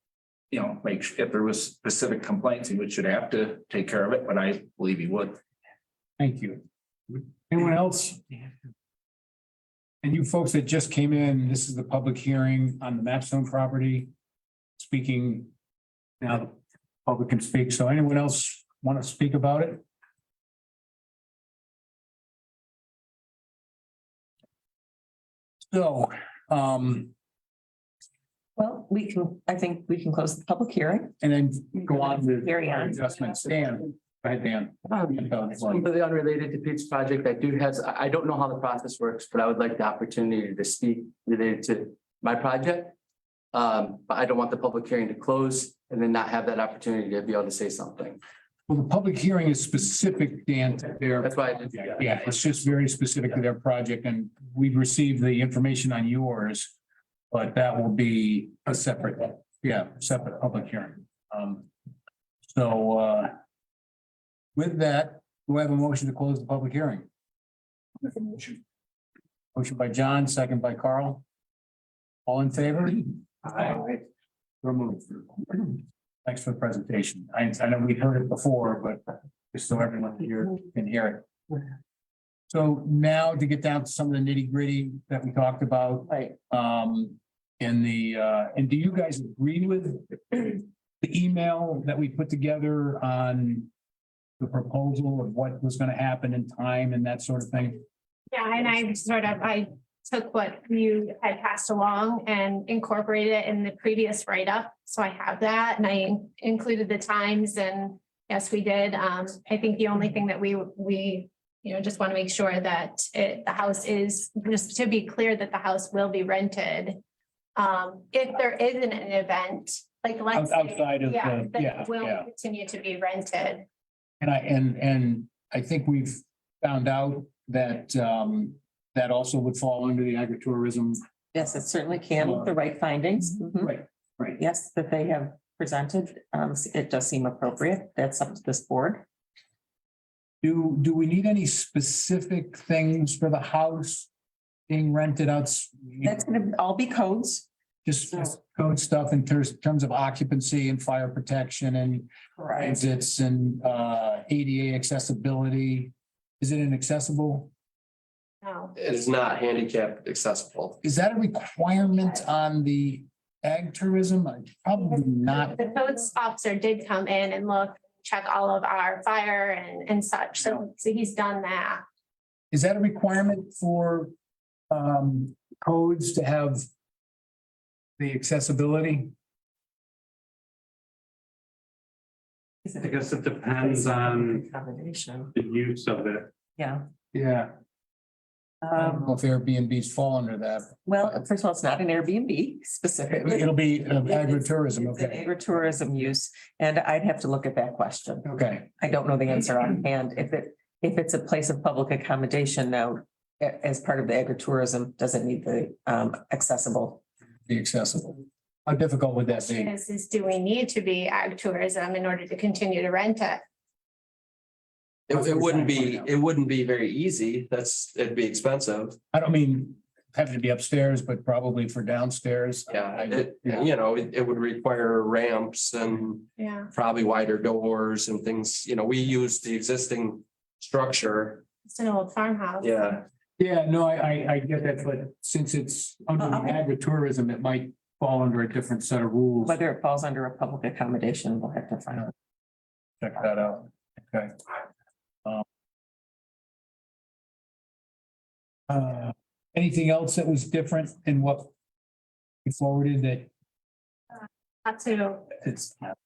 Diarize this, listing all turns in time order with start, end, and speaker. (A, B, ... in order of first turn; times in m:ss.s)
0:00.5-0:05.4 A
0:06.2-0:06.6 B
0:07.5-0:08.2 B
0:10.0-0:14.1 B
0:14.8-0:15.5 B
0:16.2-0:19.8 B
0:25.7-0:27.1 B
0:28.6-0:31.1 C
0:31.2-0:35.8 B
0:31.8-0:33.0 C
0:35.7-0:42.9 D
0:43.5-0:48.2 D
0:48.7-0:56.7 B
0:51.2-0:52.0 D
0:57.3-1:01.7 B
1:02.5-1:03.3 B
1:04.6-1:07.1 B
1:08.0-1:08.6 B
1:09.6-1:11.2 B
1:12.3-1:14.0 B
1:14.6-1:21.3 B
1:22.5-1:33.7 B
1:26.1-1:26.4 C
1:34.4-1:37.8 B
1:38.3-1:57.0 E
1:57.6-2:03.6 E
2:00.3-2:02.3 B
2:04.2-2:11.0 B
2:11.3-2:13.8 C
2:12.2-2:12.6 B
2:13.6-2:14.4 B
2:14.4-2:19.1 C
2:20.4-2:24.1 B
2:24.7-2:26.2 B
2:26.0-2:27.5 C
2:27.8-2:37.5 B
2:32.4-2:32.9 C
2:38.4-2:38.7 E
2:38.8-2:40.8 F
2:40.8-2:45.6 B
2:45.4-2:51.8 E
2:52.5-2:54.1 B
2:54.7-2:56.6 B
2:58.0-2:59.1 B
3:02.6-3:05.3 C
3:02.8-3:04.4 G
3:05.4-3:06.3 G
3:06.6-3:06.8 C
3:07.1-3:07.5 B
3:08.6-3:09.1 C
3:08.8-3:10.7 B
3:10.8-3:18.3 C
3:13.1-3:15.3 B
3:18.2-3:18.7 B
3:18.8-3:27.0 C
3:27.5-3:29.7 B
3:29.3-3:33.4 E
3:35.1-3:39.0 F
3:35.1-3:36.1 B
3:39.1-3:43.7 B
3:42.7-3:51.4 F
3:46.4-3:46.7 E
3:51.7-3:52.8 E
3:52.6-3:53.0 F
3:53.4-3:59.6 B
3:56.2-3:56.6 C
3:59.4-4:02.1 C
4:03.0-4:04.3 B
4:08.7-4:11.5 B
4:12.4-4:13.3 B
4:14.6-4:15.3 E
4:15.4-4:15.7 B